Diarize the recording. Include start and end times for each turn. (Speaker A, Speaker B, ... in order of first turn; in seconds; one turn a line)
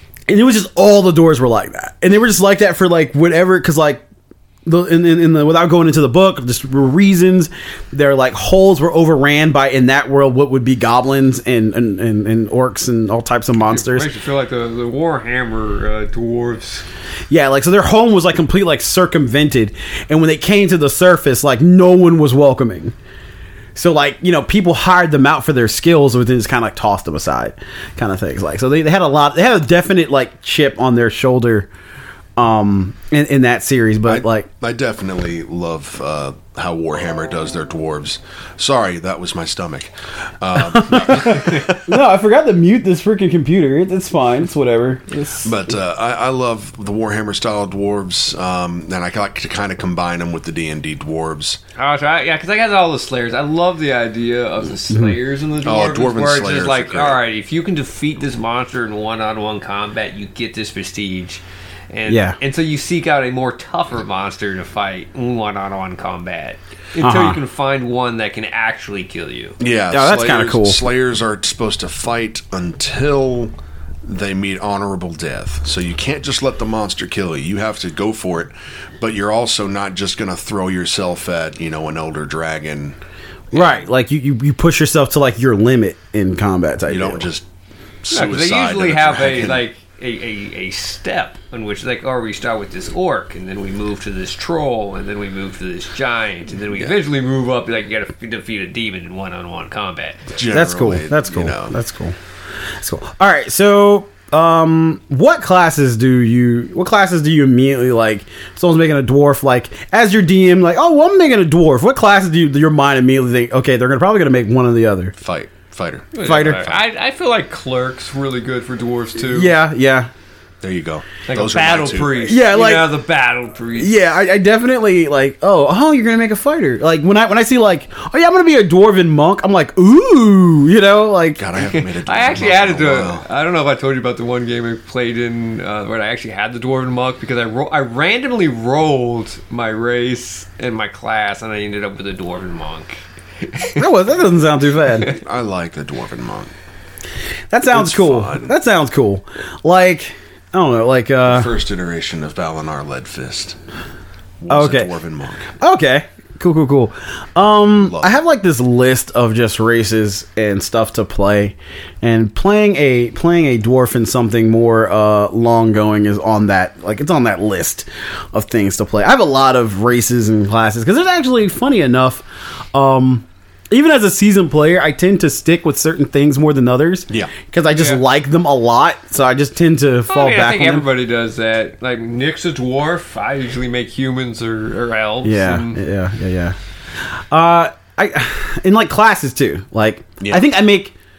Speaker A: 0.3-4.0
Speaker A: 4.6-14.1
Speaker B: 13.6-16.8
Speaker A: 17.3-22.9
Speaker A: 23.7-31.7
Speaker A: 32.4-34.5
Speaker C: 34.0-41.9
Speaker A: 40.7-45.6
Speaker C: 45.4-51.6
Speaker B: 51.8-69.6
Speaker A: 54.9-55.1
Speaker C: 55.6-57.2
Speaker A: 62.1-62.4
Speaker A: 67.0-67.4
Speaker C: 69.6-73.5
Speaker A: 69.9-70.8
Speaker C: 74.0-83.0
Speaker A: 83.5-87.3
Speaker C: 86.9-87.4
Speaker C: 88.0-89.6
Speaker B: 88.1-100.3
Speaker C: 100.3-101.8
Speaker A: 100.5-102.1
Speaker A: 102.8-115.1
Speaker C: 115.2-116.8
Speaker B: 116.1-119.5
Speaker A: 116.2-116.6
Speaker A: 119.2-120.1
Speaker C: 120.6-122.2
Speaker B: 121.2-123.9
Speaker A: 122.2-122.9
Speaker A: 123.8-131.4
Speaker C: 131.4-133.2
Speaker B: 131.6-143.8
Speaker A: 143.8-145.2
Speaker C: 145.1-146.5
Speaker A: 147.5-151.5
Speaker C: 147.7-148.5
Speaker C: 151.2-153.6
Speaker C: 154.4-155.5
Speaker A: 154.5-154.9
Speaker A: 155.6-180.9
Speaker C: 157.8-158.1
Speaker B: 177.7-178.0
Speaker B: 180.1-185.8
Speaker A: 185.2-186.5
Speaker A: 187.3-190.9